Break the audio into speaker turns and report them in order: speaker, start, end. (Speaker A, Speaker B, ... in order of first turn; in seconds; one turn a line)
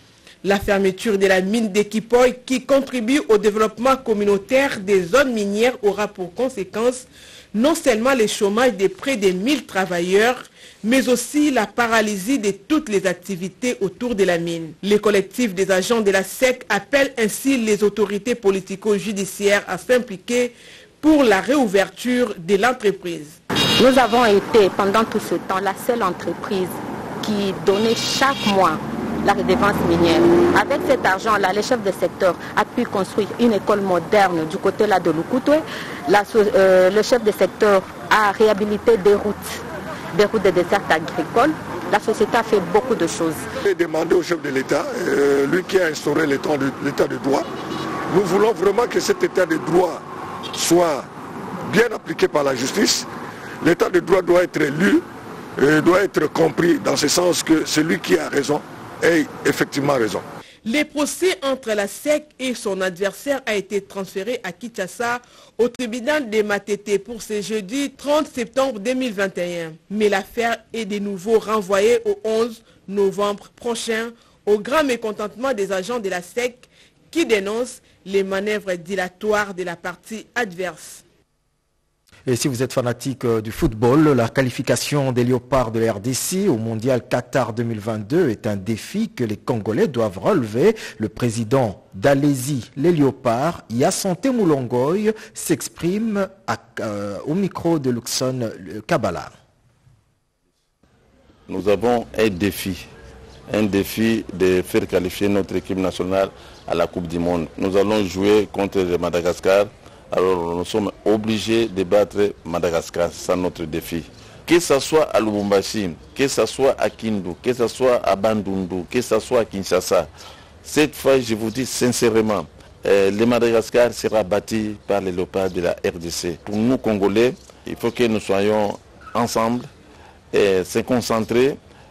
Speaker A: 0.4-23.4
Speaker B: 23.8-39.6
Speaker B: 40.1-43.4
Speaker C: 43.6-47.5
Speaker C: 48.1-50.0
Speaker C: 50.5-51.1
Speaker C: 51.6-53.1
Speaker C: 53.6-55.0
Speaker C: 55.6-60.2
Speaker A: 60.6-81.0
Speaker D: 82.3-99.3
Speaker E: 101.5-102.9
Speaker E: 103.5-120.1
Speaker E: 120.6-129.7
Speaker E: 130.3-131.6